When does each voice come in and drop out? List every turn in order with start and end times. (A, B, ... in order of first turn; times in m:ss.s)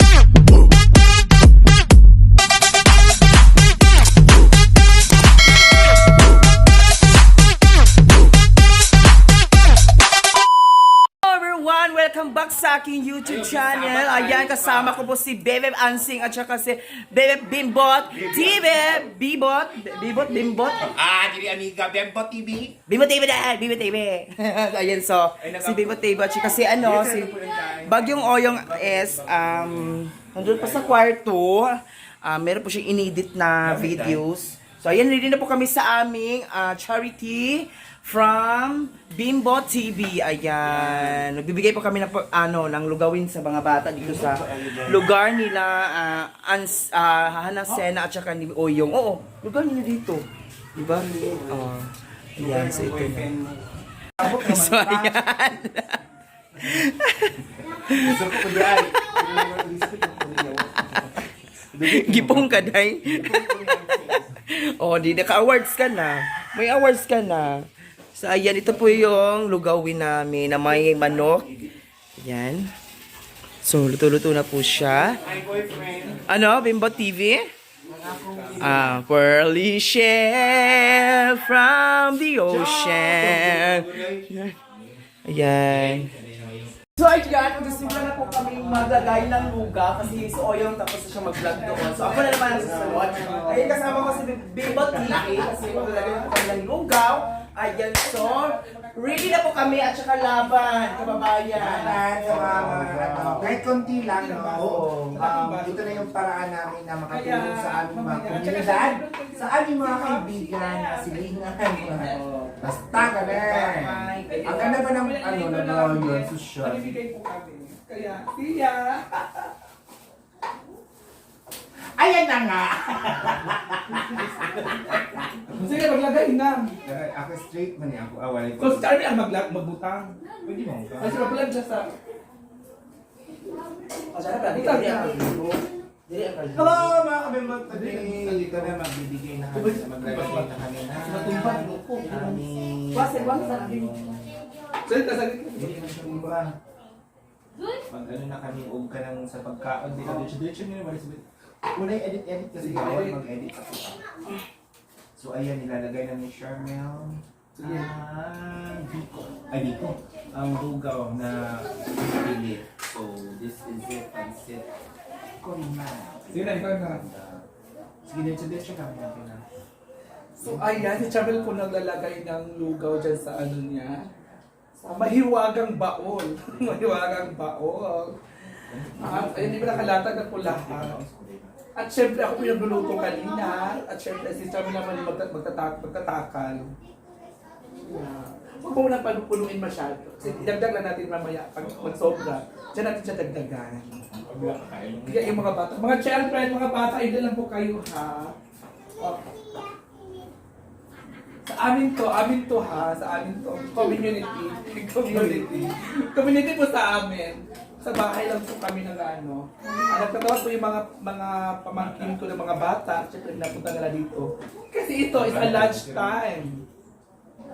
0:11.2-0:20.9 A
0:13.2-0:15.1 B
0:18.1-0:19.1 B
0:20.1-0:22.8 B
0:22.9-0:53.3 A
0:25.4-0:31.0 B
0:33.6-0:34.2 B
0:40.6-0:41.3 B
0:44.0-0:45.1 B
0:50.8-0:51.7 B
0:52.4-0:53.7 B
0:54.2-0:56.0 A
0:54.2-0:55.2 B
0:56.5-0:56.9 B
0:56.6-0:58.9 A
0:57.6-1:04.4 B
1:00.8-1:01.2 A
1:01.8-1:03.6 A
1:04.5-1:11.5 A
1:10.6-1:11.5 B
1:12.2-1:12.7 A
1:13.6-1:15.2 A
1:15.2-1:16.9 B
1:15.2-1:16.2 C
1:16.2-1:17.5 A
1:17.9-1:19.0 B
1:18.0-1:18.8 C
1:18.6-1:24.5 A
1:22.4-1:24.8 B
1:25.2-1:26.1 A
1:25.5-1:26.8 B
1:27.0-1:43.6 A
1:27.3-1:29.7 C
1:28.7-1:29.8 B
1:31.4-1:41.3 C
1:32.4-1:33.9 B
1:34.8-1:35.5 B
1:41.5-1:57.0 B
1:44.0-1:46.1 C
1:44.7-1:45.2 A
1:47.1-1:52.2 C
1:52.0-1:54.8 A
1:54.2-1:59.5 C
2:01.9-2:05.8 B
2:05.5-2:06.7 C
2:06.8-2:08.9 B
2:08.6-2:10.2 C
2:10.4-2:11.2 B
2:11.0-2:11.9 C
2:14.1-2:17.0 A
2:14.3-2:15.4 C
2:16.5-2:24.4 B
2:17.7-2:18.8 C
2:19.5-2:20.6 C
2:21.0-2:24.0 A
2:21.1-2:22.1 C
2:24.8-2:26.3 C
2:25.6-2:26.6 B
2:27.9-2:34.0 B
2:32.6-2:33.2 C
2:35.1-2:44.7 B
2:37.5-2:37.9 C
2:45.3-2:47.4 B
2:46.3-2:47.0 C
2:48.0-2:49.4 B
2:50.4-2:54.1 C
2:50.4-2:52.0 B
2:54.1-2:54.4 B
2:54.8-2:58.2 C
2:56.5-2:57.0 B
2:58.7-3:01.6 B
2:59.0-3:01.0 C
3:01.7-3:06.7 C
3:07.8-3:14.0 C
3:10.2-3:10.6 B
3:11.6-3:12.2 B
3:14.1-3:15.6 B
3:15.0-3:18.3 C
3:19.0-3:19.2 C
3:21.4-3:36.6 C
3:25.0-3:25.7 B
3:31.7-3:32.5 B
3:35.1-3:36.4 B